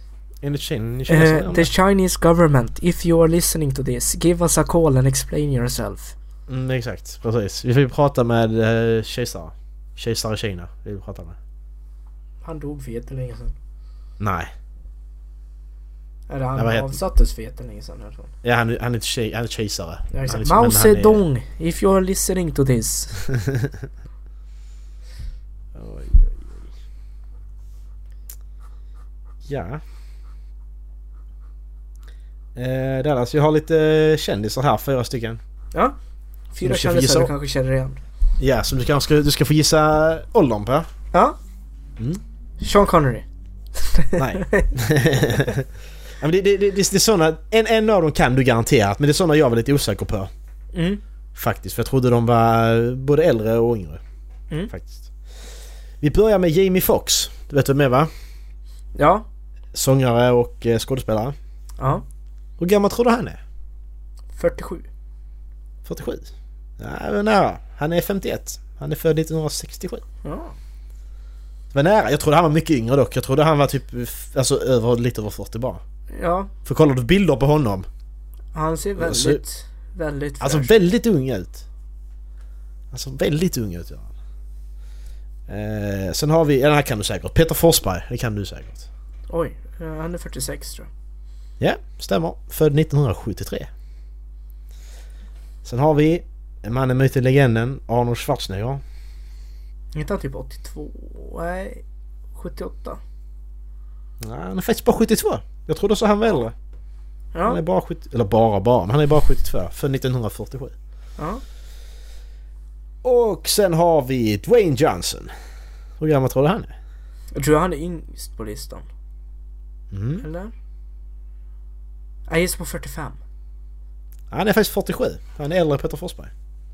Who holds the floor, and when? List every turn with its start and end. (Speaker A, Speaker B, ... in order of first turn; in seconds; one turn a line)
Speaker A: 0.4-1.7
Speaker B: 1.1-6.1
Speaker A: 6.5-11.4
Speaker B: 12.4-13.5
Speaker A: 14.2-14.5
Speaker B: 16.3-18.3
Speaker A: 16.6-17.0
Speaker A: 18.4-21.2
Speaker B: 20.1-23.2
Speaker A: 23.3-23.9
Speaker A: 25.7-26.7
Speaker A: 29.4-29.8
Speaker A: 32.5-35.4
Speaker B: 36.5-38.0
Speaker A: 36.6-37.3
Speaker A: 38.4-40.9
Speaker B: 42.6-43.2
Speaker B: 43.8-44.7
Speaker A: 44.2-45.7
Speaker A: 46.2-50.3
Speaker B: 50.7-51.0
Speaker A: 51.3-54.0
Speaker A: 54.7-55.1
Speaker A: 56.0-58.1
Speaker B: 59.0-59.2
Speaker A: 59.7-61.4
Speaker B: 61.8-62.0
Speaker A: 62.6-63.4
Speaker B: 64.3-64.9
Speaker A: 65.8-70.0
Speaker B: 70.2-70.5
Speaker A: 71.7-75.8
Speaker B: 76.1-76.5
Speaker A: 76.7-77.9
Speaker B: 78.5-80.7
Speaker A: 79.0-79.4
Speaker A: 80.4-81.7
Speaker A: 82.9-84.1
Speaker A: 85.5-88.9
Speaker B: 89.3-90.9
Speaker A: 91.6-93.7
Speaker A: 95.6-98.8
Speaker B: 99.9-101.8
Speaker B: 102.3-103.0
Speaker A: 104.2-106.5
Speaker B: 107.3-107.6
Speaker A: 107.5-110.7
Speaker B: 111.2-111.4
Speaker A: 113.0-115.3
Speaker A: 116.0-116.7
Speaker B: 117.3-118.9
Speaker A: 119.9-120.2
Speaker B: 120.2-120.5
Speaker B: 122.3-123.2
Speaker A: 124.3-126.3